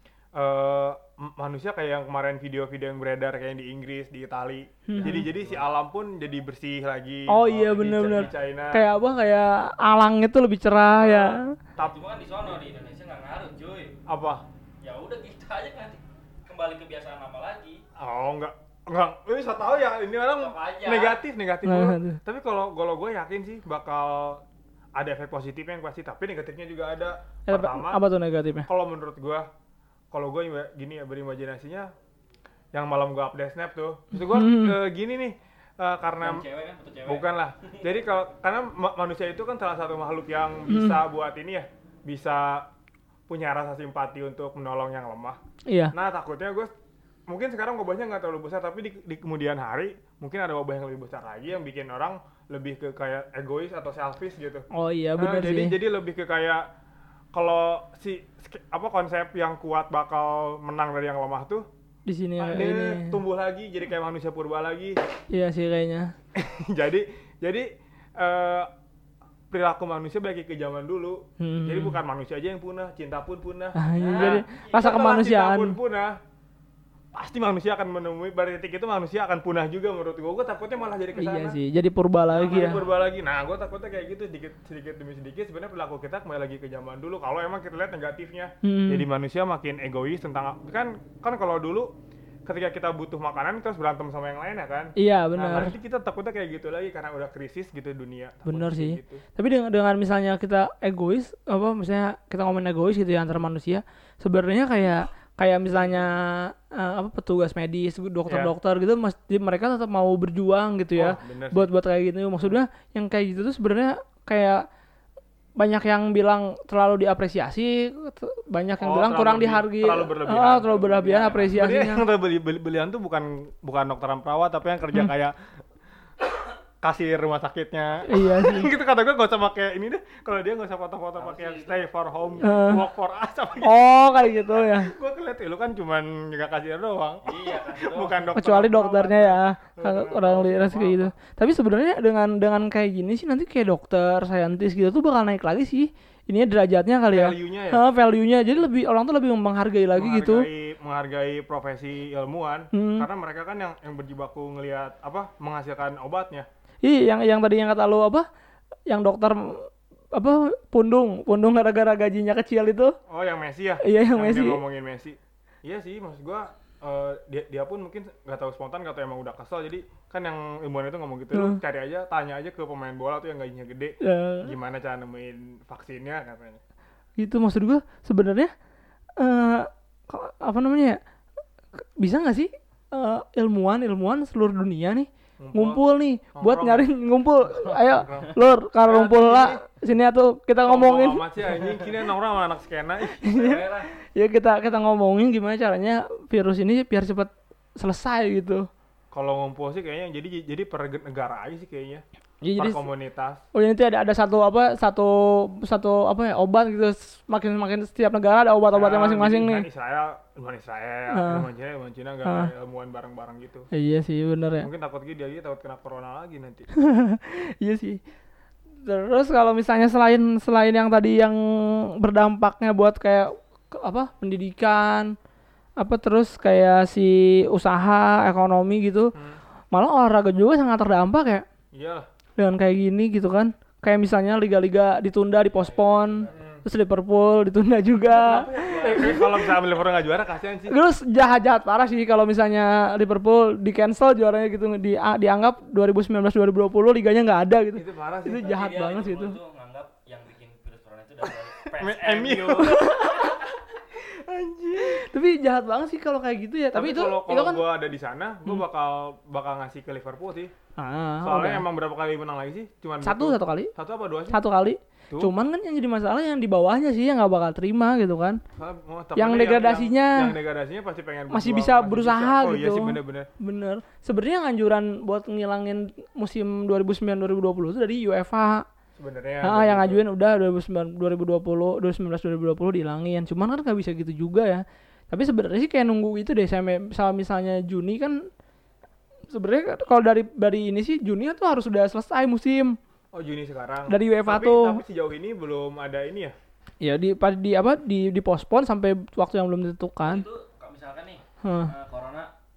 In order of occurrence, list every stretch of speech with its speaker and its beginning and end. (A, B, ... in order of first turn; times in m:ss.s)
0:00.3-0:08.8 A
0:04.9-0:05.2 B
0:05.0-0:05.6 C
0:07.3-0:11.5 B
0:11.0-0:11.9 A
0:11.8-0:14.0 C
0:14.1-0:14.4 A
0:14.8-0:17.8 C
0:18.0-0:24.4 A
0:20.4-0:21.2 C
0:21.6-0:22.2 B
0:25.0-0:28.0 A
0:27.5-0:28.7 B
0:28.6-0:29.5 A
0:30.1-0:31.9 A
0:32.7-0:36.4 A
0:34.1-0:34.8 B
0:36.2-0:37.8 C
0:37.0-0:42.7 A
0:40.7-0:41.0 B
0:43.3-0:45.4 A
0:45.7-0:45.9 B
0:45.9-0:46.7 A
0:47.3-0:54.6 A
0:54.7-0:55.8 B
0:55.2-0:56.6 A
0:57.3-1:01.6 A
1:02.0-1:03.1 B
1:02.4-1:05.0 A
1:05.3-1:06.1 B
1:06.3-1:08.7 A
1:09.5-1:16.2 A
1:11.4-1:12.0 B
1:13.8-1:15.8 B
1:13.9-1:14.6 C
1:17.1-1:21.6 A
1:21.2-1:22.8 B
1:22.3-1:23.0 C
1:22.3-1:31.9 A
1:28.6-1:29.0 B
1:32.4-1:39.2 A
1:35.0-1:35.7 B
1:38.4-1:54.6 B
1:48.3-1:48.5 A
1:50.9-1:51.7 A
1:55.6-2:02.0 B
1:58.8-2:05.3 A
2:06.8-2:13.8 A
2:08.1-2:08.7 B
2:08.3-2:08.6 C
2:11.2-2:11.8 C
2:12.4-2:12.8 B
2:13.6-2:14.9 B
2:14.4-2:21.1 A
2:17.2-2:18.3 C
2:18.3-2:30.5 B
2:27.1-2:27.8 A
2:30.0-2:36.5 A
2:32.7-2:33.1 B
2:36.8-2:38.2 B
2:38.9-2:42.9 B
2:43.1-2:56.6 A
2:43.8-2:44.6 B
2:51.3-2:51.6 B
2:54.0-2:54.5 B
2:57.2-2:58.5 B
2:59.2-3:01.0 B
3:01.8-3:11.2 B
3:05.4-3:05.8 A
3:06.3-3:06.9 A
3:07.6-3:09.6 A
3:10.6-3:13.5 A
3:13.2-3:18.7 B
3:13.2-3:13.9 C
3:19.1-3:22.0 A
3:22.4-3:22.8 B
3:22.6-3:23.4 A
3:23.5-3:29.7 B
3:28.7-3:33.7 A
3:31.1-3:31.4 B
3:32.2-3:32.5 B
3:33.7-3:34.7 B
3:34.6-3:36.7 A
3:36.8-3:38.0 B
3:38.8-3:45.1 B
3:45.8-3:49.1 B
3:49.7-3:51.4 B
3:51.7-3:52.1 A
3:52.4-3:59.5 B
3:55.5-3:56.4 C
3:56.3-3:56.6 A
3:58.0-4:00.8 A
3:58.6-4:00.1 C
4:00.7-4:09.4 B
4:07.7-4:08.5 A
4:08.4-4:13.2 C
4:11.8-4:13.4 A
4:12.5-4:13.4 B
4:13.9-4:15.0 A
4:14.8-4:17.6 B
4:16.7-4:20.5 A
4:20.8-4:21.6 B
4:21.2-4:24.4 A
4:23.0-4:23.7 B
4:24.3-4:28.4 B
4:28.6-4:33.3 A
4:29.2-4:30.3 B
4:31.3-4:38.6 B
4:39.0-4:40.0 A
4:39.4-4:48.2 B
4:49.3-4:52.8 B
4:53.1-4:56.3 A
4:53.9-4:54.8 B
4:56.8-5:00.2 B
5:00.0-5:02.3 C
5:01.4-5:01.7 B